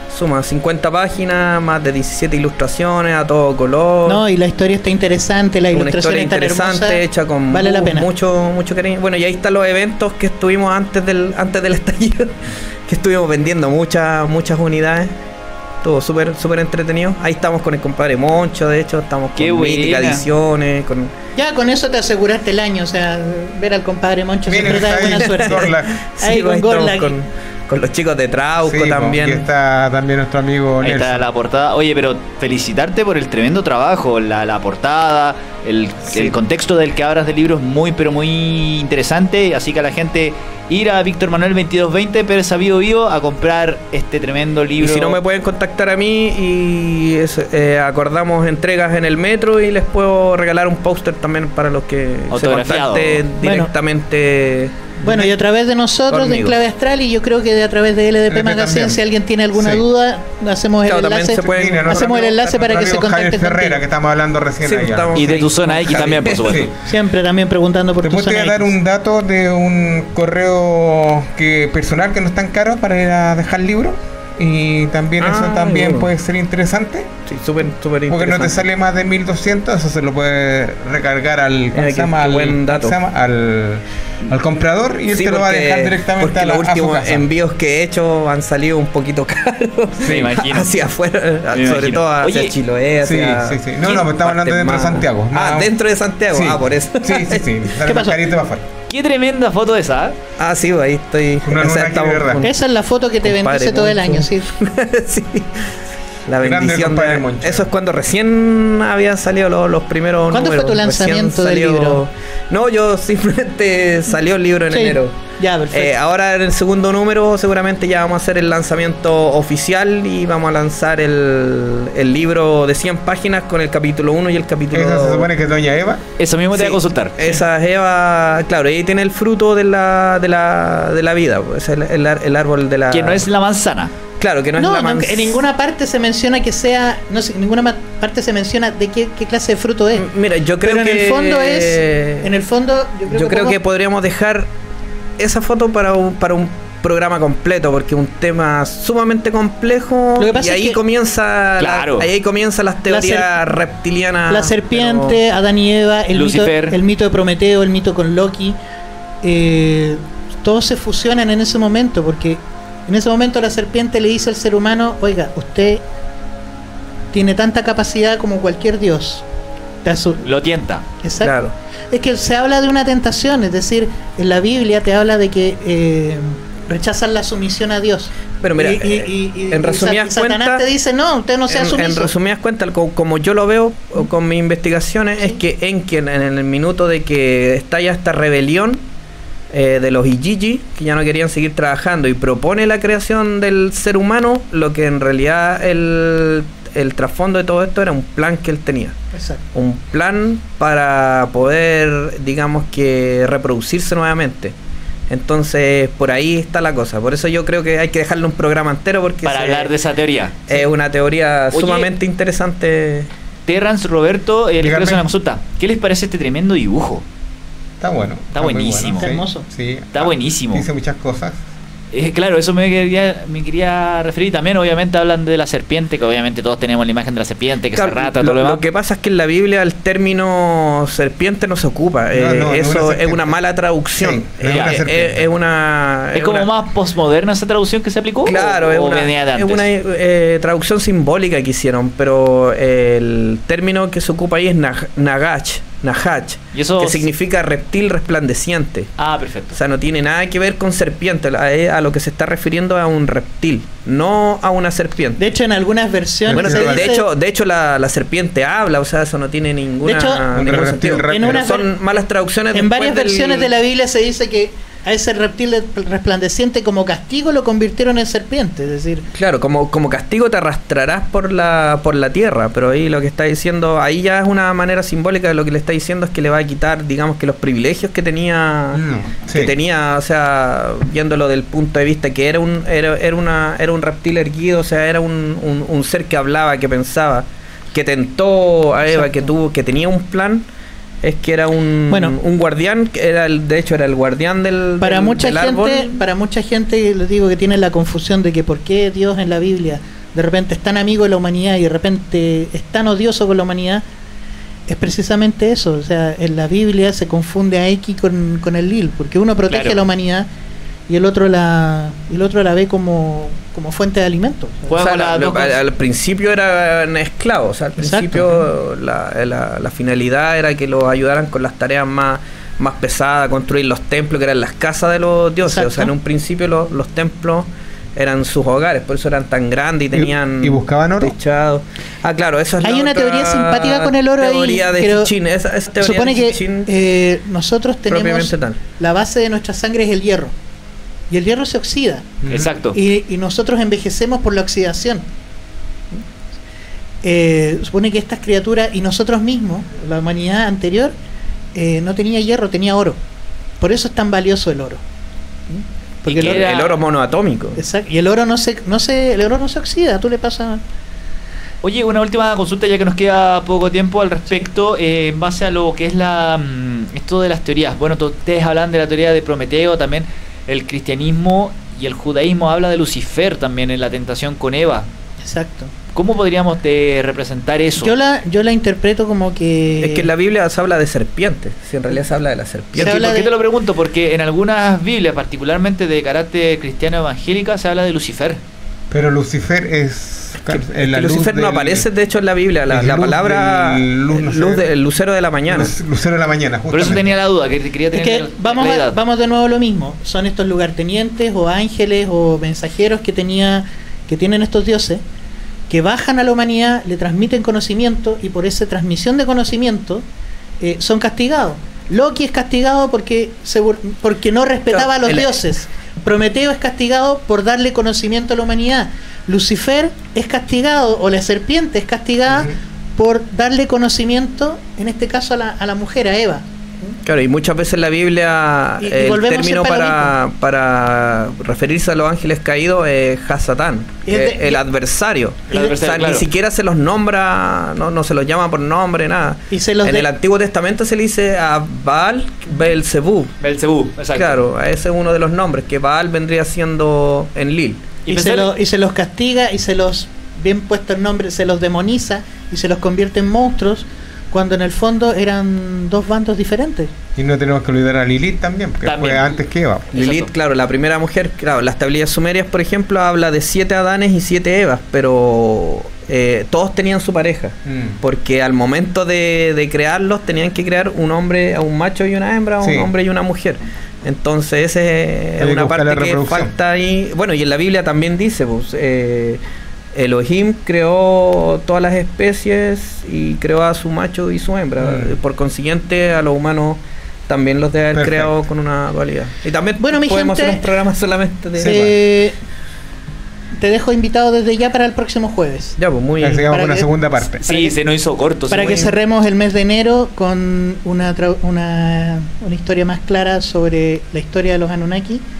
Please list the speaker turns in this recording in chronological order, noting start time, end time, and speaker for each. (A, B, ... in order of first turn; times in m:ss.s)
0:00.1-0:04.2 A
0:04.1-0:08.1 B
0:05.7-0:15.1 A
0:15.8-0:21.1 A
0:19.4-0:20.2 C
0:21.4-0:25.7 B
0:24.5-0:26.0 D
0:24.7-0:29.4 A
0:26.2-0:27.2 B
0:28.6-0:31.2 D
0:30.8-0:45.2 C
0:44.8-0:55.0 A
0:52.3-0:53.2 C
0:53.4-0:53.7 B
0:55.0-1:03.8 B
0:56.1-0:56.6 A
0:58.3-0:59.0 D
0:59.5-0:59.8 D
1:00.9-1:02.0 A
1:01.4-1:05.3 D
1:04.6-1:06.7 A
1:05.2-1:06.7 C
1:05.9-1:06.8 D
1:06.8-1:08.7 B
1:08.0-1:17.2 D
1:15.2-1:16.1 A
1:17.3-1:18.6 A
1:18.1-1:27.3 D
1:21.7-1:23.0 A
1:25.1-1:37.5 A
1:30.0-1:30.8 C
1:30.0-1:30.3 D
1:31.5-1:32.5 C
1:33.0-1:35.7 D
1:36.3-1:38.6 D
1:37.8-1:38.2 B
1:38.9-1:40.2 C
1:40.4-1:42.6 A
1:41.4-1:42.4 D
1:42.4-1:44.5 B
1:43.2-1:55.2 A
1:46.4-1:47.7 D
1:50.3-1:52.0 B
1:54.7-1:56.0 B
1:55.7-2:05.3 A
2:04.7-2:06.0 D
2:06.2-2:07.4 C
2:06.5-2:13.3 A
2:12.9-2:13.9 C
2:14.2-2:15.4 A
2:14.6-2:20.0 B
2:20.0-2:22.3 A
2:20.6-2:23.6 B
2:23.1-2:24.5 A
2:25.2-2:35.2 A
2:30.2-2:30.8 B
2:31.6-2:32.1 C
2:32.9-2:33.3 B
2:34.3-2:38.6 B
2:36.1-2:36.8 C
2:39.2-2:45.8 B
2:47.1-2:49.2 B
2:49.8-2:50.2 B
2:50.2-2:50.8 C
2:51.0-2:51.3 B
2:51.2-2:51.5 A
2:51.9-3:02.1 B
2:58.4-3:00.6 A
3:01.5-3:08.8 A
3:09.5-3:19.0 A
3:19.1-3:19.4 B
3:19.5-3:24.6 A
3:25.1-3:29.7 A
3:29.2-3:30.4 C
3:30.5-3:33.1 A
3:31.5-3:31.9 C
3:33.5-3:37.0 C
3:34.6-3:35.1 D
3:37.8-3:41.4 D
3:38.3-3:39.1 C
3:39.0-3:39.5 B
3:39.9-3:40.6 C
3:41.9-3:48.6 C
3:47.8-3:56.5 A
3:52.1-3:53.4 D
3:54.0-3:55.3 D
3:54.5-3:54.8 C
3:56.1-3:59.6 C
3:58.2-4:08.9 A
4:06.5-4:07.1 C
4:09.0-4:09.6 C
4:09.5-4:15.2 A
4:15.2-4:17.1 B
4:16.3-4:17.0 D
4:16.3-4:23.5 A
4:19.8-4:20.3 B
4:20.3-4:21.5 D
4:21.1-4:21.7 B
4:22.5-4:29.0 B
4:29.1-4:50.5 A
4:38.7-4:39.5 D
4:48.9-4:49.3 B
4:51.0-4:56.0 A
4:51.9-4:52.2 B
4:54.8-5:03.8 B
5:04.7-5:10.3 B
5:09.5-5:09.8 C
5:10.9-5:14.8 B
5:14.7-5:15.6 C
5:14.8-5:36.7 A
5:17.8-5:18.4 B
5:25.4-5:25.9 B
5:29.9-5:31.1 D
5:32.6-5:35.1 B
5:35.8-5:40.3 B
5:37.9-5:38.6 A
5:41.1-5:42.1 B
5:42.2-5:42.5 D
5:42.3-5:42.8 C
5:42.7-5:45.1 B
5:47.0-5:51.0 B
5:51.6-5:53.0 B
5:53.6-5:54.8 B
5:55.5-5:57.6 A
5:56.0-5:56.6 B
5:56.2-5:56.8 C
5:57.6-6:00.6 B
6:01.6-6:14.9 C
6:15.2-6:15.7 B
6:15.9-6:17.9 C
6:17.8-6:20.1 B
6:19.8-6:23.1 A
6:22.8-6:28.4 C
6:22.8-6:23.3 B
6:28.9-6:31.9 D
6:30.5-6:35.7 A
6:32.7-6:34.7 D
6:35.5-6:37.1 D
6:36.7-6:39.0 C
6:37.9-6:45.0 B
6:45.7-6:50.0 B
6:50.6-7:07.0 B
6:54.7-6:55.4 A
7:07.0-7:23.4 A
7:08.8-7:10.1 B
7:14.0-7:14.6 B
7:15.5-7:16.3 C
7:19.5-7:20.1 B
7:23.4-7:24.4 C
7:24.1-7:27.8 A
7:28.1-7:28.5 C
7:28.1-7:36.9 B
7:37.2-7:39.9 D
7:38.8-7:39.4 C
7:39.9-7:40.3 C
7:39.9-7:59.4 A
7:47.6-7:48.0 D
7:52.6-7:52.9 D
7:55.4-7:56.5 D
7:59.9-8:11.9 A
8:04.8-8:05.2 D
8:07.9-8:08.3 D
8:09.8-8:10.6 B
8:11.6-8:11.9 D
8:11.6-8:12.4 B
8:13.6-8:15.8 B
8:15.8-8:16.5 A
8:16.2-8:17.4 D
8:16.5-8:16.9 B
8:17.4-8:18.9 C
8:17.4-8:17.7 B
8:18.5-8:25.2 B